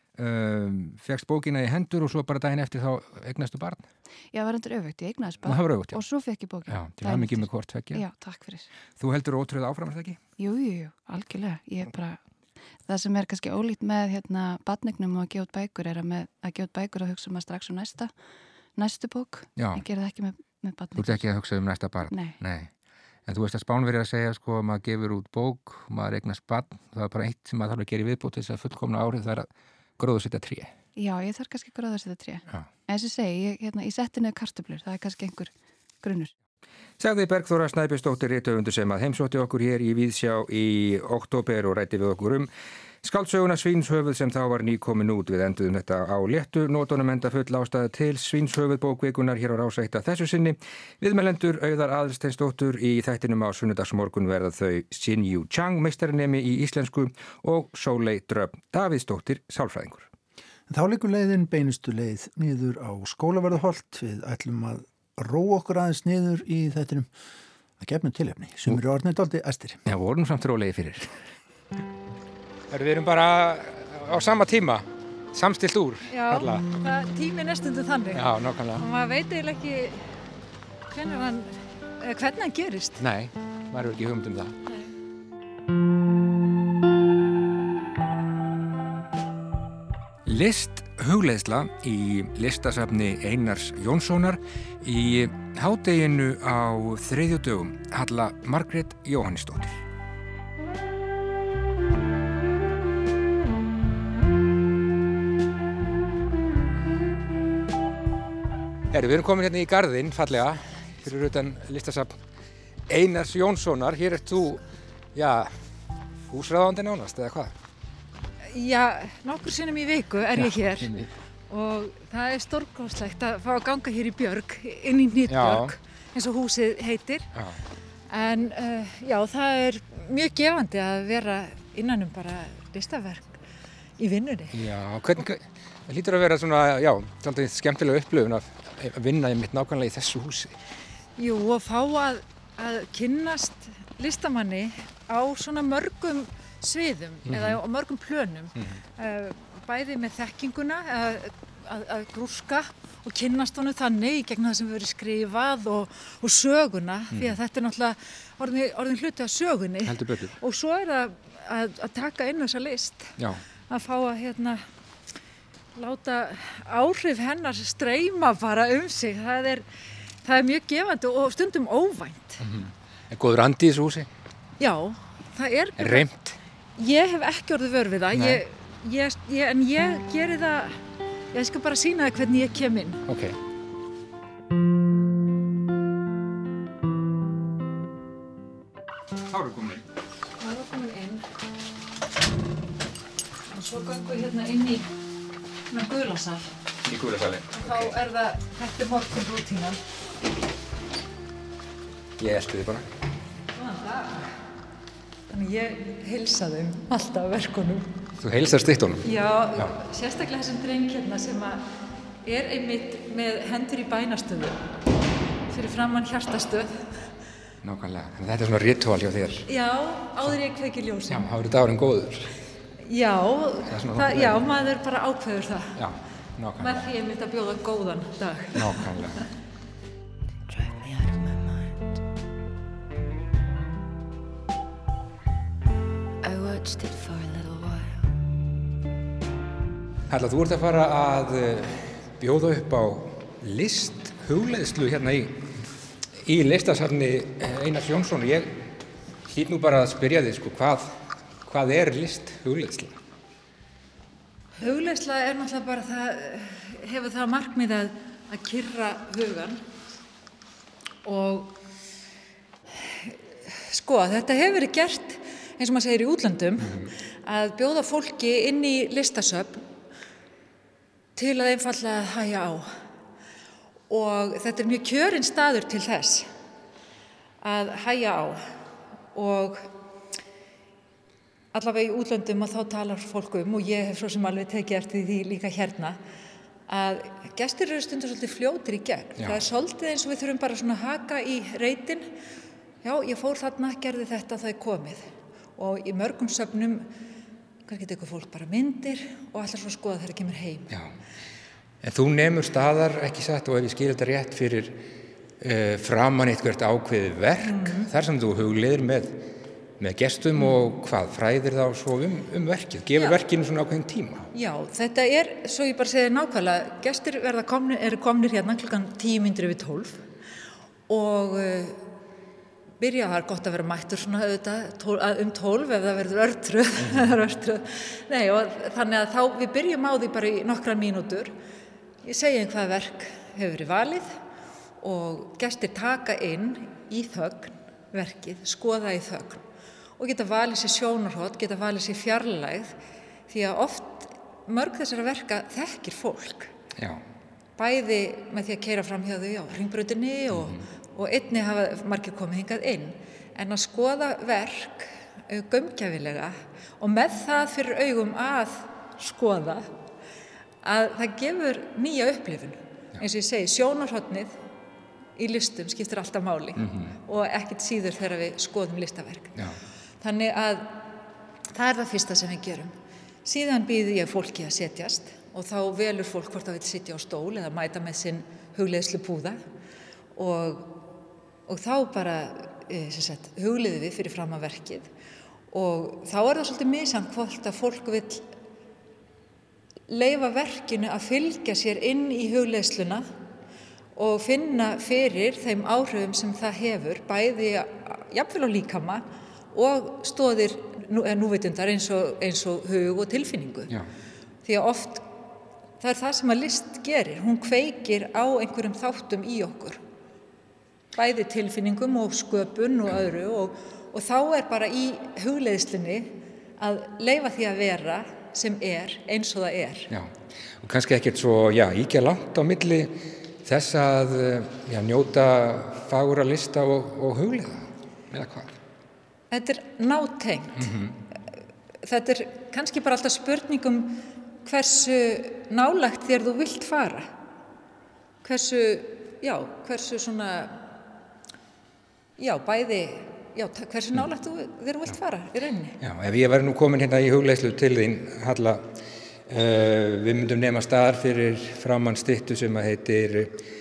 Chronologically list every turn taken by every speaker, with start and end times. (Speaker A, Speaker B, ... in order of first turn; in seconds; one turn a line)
Speaker A: 0.2-3.9
Speaker B: 4.3-8.7
Speaker A: 5.5-6.0
Speaker A: 6.7-8.1
Speaker A: 9.0-10.2
Speaker B: 10.4-12.2
Speaker B: 12.8-18.1
Speaker B: 18.8-21.2
Speaker A: 19.6-19.9
Speaker A: 21.0-22.7
Speaker B: 22.1-22.4
Speaker A: 23.3-30.7
Speaker B: 31.0-36.3
Speaker A: 37.0-42.5
Speaker A: 43.0-60.1
Speaker C: 60.7-67.1
Speaker C: 67.8-69.8
Speaker A: 69.9-71.2
Speaker A: 72.7-76.7
Speaker D: 76.1-80.1
Speaker A: 78.1-78.8
Speaker D: 80.9-83.0
Speaker A: 83.0-84.6
Speaker A: 90.3-99.8
Speaker A: 108.9-112.2
Speaker A: 112.9-114.6
Speaker A: 115.2-115.6
Speaker A: 116.3-117.5
Speaker D: 118.5-120.9
Speaker A: 120.4-121.1
Speaker D: 121.5-127.3
Speaker A: 125.3-125.7
Speaker A: 127.3-127.6
Speaker D: 128.1-133.4
Speaker D: 134.0-134.6
Speaker A: 134.5-140.6
Speaker D: 141.2-163.1
Speaker A: 147.3-147.6
Speaker A: 157.1-157.4
Speaker A: 159.8-160.3
Speaker A: 163.2-163.4
Speaker D: 163.7-164.6
Speaker D: 165.8-169.7
Speaker D: 170.2-172.4
Speaker A: 172.4-174.1
Speaker D: 174.6-176.1
Speaker A: 175.8-176.4
Speaker D: 176.8-180.8
Speaker A: 178.1-178.4
Speaker D: 181.3-183.0
Speaker A: 183.1-183.4
Speaker A: 189.3-189.8
Speaker D: 190.4-191.2
Speaker D: 193.5-194.9
Speaker D: 195.7-196.5
Speaker A: 196.8-198.0
Speaker D: 197.5-199.8
Speaker A: 202.2-202.9
Speaker D: 203.6-204.3
Speaker D: 205.3-207.9
Speaker A: 208.2-209.7
Speaker D: 209.0-211.6
Speaker D: 212.2-214.6
Speaker D: 215.5-216.9
Speaker A: 217.6-219.5
Speaker D: 219.5-221.3
Speaker A: 221.1-222.3
Speaker D: 222.8-225.7
Speaker A: 223.7-224.5
Speaker A: 225.8-226.8
Speaker D: 226.6-228.7
Speaker A: 228.6-229.2
Speaker E: 230.5-231.9
Speaker E: 236.2-238.1
Speaker A: 240.1-245.4
Speaker A: 246.2-248.7
Speaker A: 249.3-250.9
Speaker A: 251.5-252.9
Speaker D: 254.6-259.6
Speaker D: 261.1-261.6
Speaker D: 262.8-269.6
Speaker A: 266.6-266.9
Speaker D: 271.2-272.7
Speaker D: 273.9-276.3
Speaker D: 277.4-278.4
Speaker D: 279.1-279.7
Speaker D: 281.5-286.0
Speaker D: 286.7-292.1
Speaker A: 289.2-289.4
Speaker D: 292.8-296.9
Speaker D: 297.7-300.8
Speaker A: 301.8-304.8
Speaker A: 305.4-309.2
Speaker D: 307.4-307.9
Speaker A: 309.8-314.3
Speaker D: 312.9-313.2
Speaker D: 314.3-320.0
Speaker D: 320.9-321.8
Speaker D: 322.8-331.3
Speaker A: 326.8-327.1
Speaker D: 332.0-334.1
Speaker D: 334.8-339.4
Speaker D: 340.0-342.8
Speaker D: 343.3-346.5
Speaker A: 346.8-347.0
Speaker D: 347.6-359.7
Speaker A: 350.3-350.7
Speaker D: 360.6-364.4
Speaker D: 365.2-369.4
Speaker A: 366.6-367.0
Speaker A: 369.4-369.6
Speaker D: 370.0-370.8
Speaker D: 371.5-372.7
Speaker D: 373.2-379.4
Speaker D: 380.2-380.8
Speaker D: 381.5-384.9
Speaker D: 385.5-388.2
Speaker D: 389.9-393.1
Speaker D: 394.0-403.7
Speaker D: 404.4-405.1
Speaker D: 405.8-409.8
Speaker D: 411.0-419.9
Speaker A: 419.9-428.6
Speaker D: 429.3-430.7
Speaker A: 430.6-431.0
Speaker D: 431.8-437.1
Speaker D: 438.2-440.6
Speaker D: 442.2-445.8
Speaker A: 445.8-448.6
Speaker A: 449.3-453.4